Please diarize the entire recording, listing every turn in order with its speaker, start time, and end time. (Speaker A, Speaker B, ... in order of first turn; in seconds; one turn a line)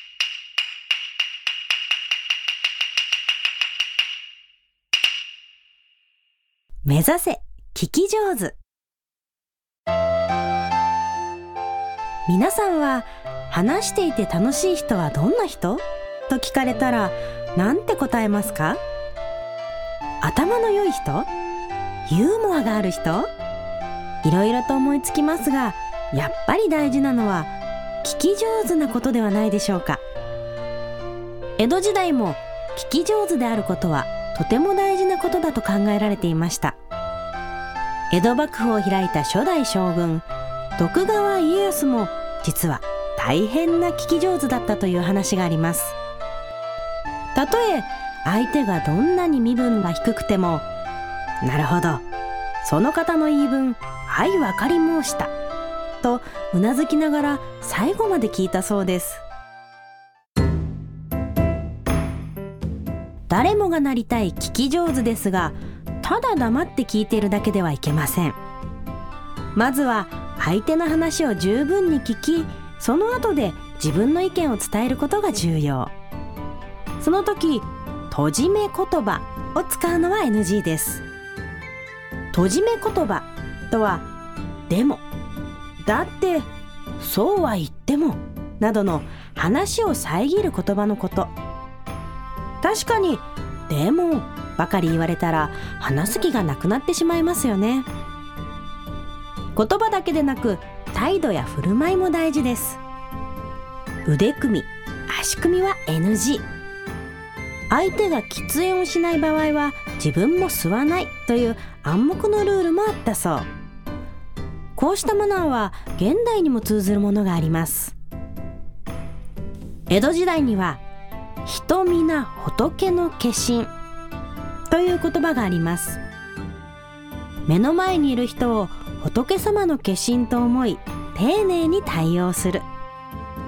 Speaker A: 6.8-8.6
Speaker A: 12.3-18.8
Speaker A: 20.2-21.3
Speaker A: 22.1-23.3
Speaker A: 24.2-27.5
Speaker A: 28.0-30.0
Speaker A: 31.6-36.8
Speaker A: 38.1-40.2
Speaker A: 40.8-46.0
Speaker A: 47.3-50.6
Speaker A: 51.4-52.0
Speaker A: 52.6-55.3
Speaker A: 56.0-59.2
Speaker A: 63.3-68.4
Speaker A: 69.5-75.9
Speaker A: 77.0-81.0
Speaker A: 82.3-84.1
Speaker A: 84.7-85.0
Speaker A: 85.8-86.5
Speaker A: 87.0-91.3
Speaker A: 92.6-97.9
Speaker A: 99.5-102.8
Speaker A: 104.1-106.5
Speaker A: 107.7-113.5
Speaker A: 114.8-118.0
Speaker A: 119.9-120.8
Speaker A: 121.5-123.7
Speaker A: 124.7-126.0
Speaker A: 127.5-132.6